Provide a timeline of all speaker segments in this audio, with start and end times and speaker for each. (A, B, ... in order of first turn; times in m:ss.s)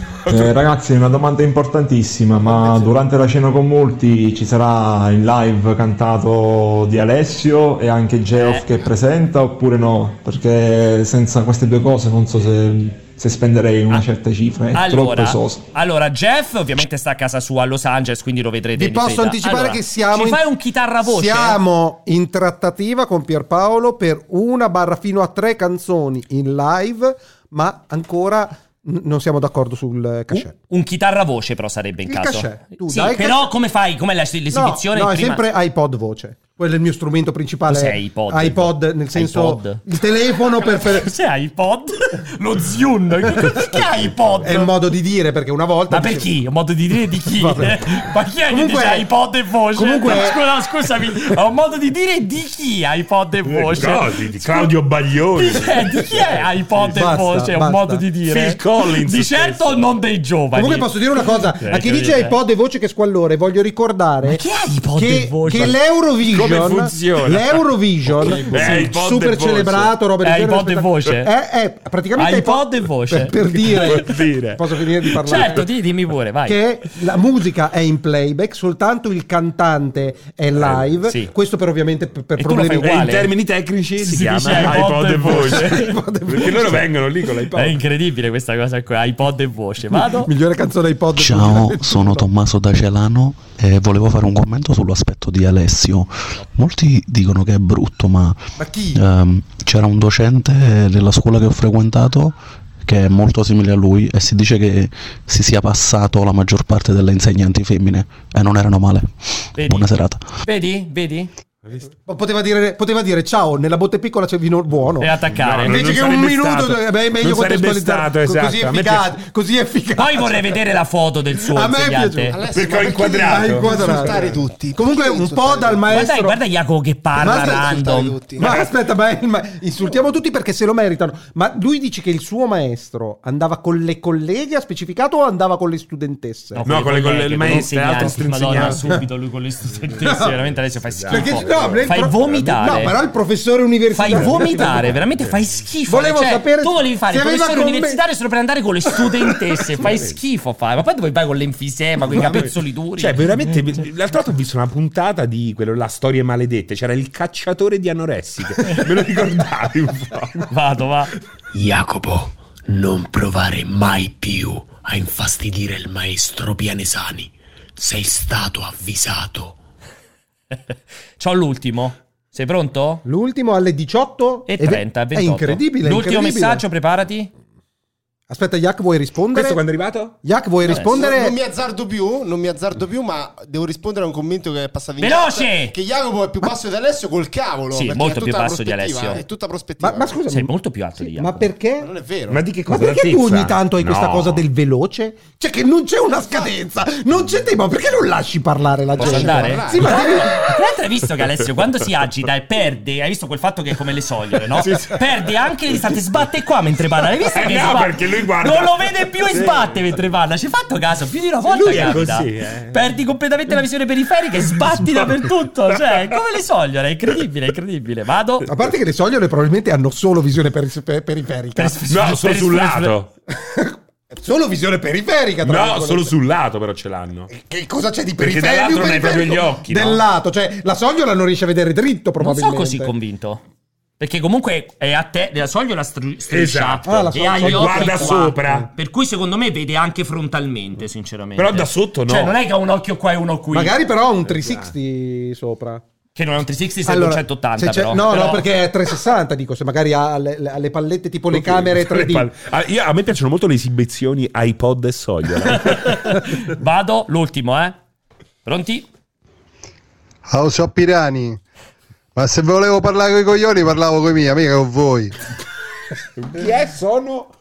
0:00.3-0:15.6 A
0:02.5-0:02.9 B
0:08.3-0:08.7 C
0:14.7-0:21.6 C
0:18.7-0:20.4 B
0:21.0-0:30.5 B
0:30.3-0:35.4 C
0:32.0-0:33.5 B
0:34.5-0:41.1 B
0:37.7-0:39.8 C
0:40.6-0:44.7 C
0:44.4-0:46.3 B
0:45.9-0:54.7 C
0:47.3-0:47.9 B
0:48.5-0:49.1 B
0:49.7-0:50.4 B
0:53.5-0:56.9 D
0:55.4-1:00.9 C
0:56.9-0:58.0 B
0:58.2-0:59.8 D
1:00.5-1:04.4 B
1:01.6-1:02.4 C
1:04.2-1:05.8 C
1:05.0-1:15.7 B
1:06.3-1:09.9 D
1:08.5-1:08.9 C
1:10.2-1:11.3 C
1:12.2-1:13.3 C
1:13.4-1:15.6 D
1:15.2-1:16.6 C
1:16.4-1:23.0 B
1:20.5-1:20.8 D
1:21.0-1:21.3 C
1:22.4-1:23.3 C
1:22.8-1:27.8 D
1:24.0-1:25.9 C
1:24.5-1:26.8 B
1:27.5-1:30.3 C
1:29.9-1:32.2 B
1:31.2-1:38.4 E
1:38.6-1:39.0 B
1:38.9-1:50.2 E
1:49.6-1:49.9 C
1:50.4-1:51.3 C
1:52.0-1:55.1 B
1:55.0-1:55.8 C
1:55.3-1:59.1 D
1:55.6-2:00.6 B
2:00.0-2:02.4 C
2:01.4-2:02.5 B
2:02.3-2:05.9 F
2:02.5-2:04.4 D
2:03.2-2:06.4 B
2:05.9-2:08.2 C
2:07.2-2:16.6 B
2:07.2-2:08.5 F
2:16.5-2:22.9 C
2:16.6-2:19.0 D
2:20.0-2:20.3 B
2:20.9-2:22.4 D
2:21.1-2:25.0 B
2:23.9-2:33.2 C
2:24.9-2:25.4 D
2:25.9-2:28.0 B
2:29.8-2:30.2 D
2:32.1-2:40.4 D
2:32.1-2:32.4 B
2:40.5-2:41.1 C
2:41.5-2:49.6 G
2:51.2-2:53.0 C
2:53.0-2:56.6 B
2:54.5-2:57.3 C
2:58.3-2:59.6 B
2:59.3-3:00.2 D
3:00.2-3:01.4 B
3:00.6-3:10.2 F
3:00.6-3:01.0 C
3:05.0-3:05.7 C
3:07.7-3:09.2 C
3:09.8-3:11.9 B
3:10.3-3:11.5 C
3:11.8-3:12.4 F
3:12.3-3:14.4 D
3:12.7-3:20.6 B
3:19.0-3:20.2 F
3:19.0-3:38.5 C
3:24.6-3:25.0 D
3:27.3-3:29.8 D
3:31.5-3:32.9 D
3:38.5-3:41.8 B
3:41.6-3:42.9 C
3:41.9-3:43.1 D
3:43.3-3:46.1 B
3:45.4-3:47.3 D
3:47.3-3:52.9 B
3:48.2-3:50.0 D
3:52.2-3:53.4 C
3:54.0-4:03.8 C
3:56.3-3:58.7 D
3:56.8-3:58.7 B
4:01.4-4:02.4 D
4:03.5-4:05.8 B
4:04.2-4:04.7 D
4:06.1-4:08.5 C
4:06.8-4:12.3 B
4:11.3-4:16.0 D
4:15.5-4:17.8 C
4:18.4-4:18.9 C
4:20.3-4:21.4 H
4:22.2-4:25.1 H
4:26.2-4:27.3 D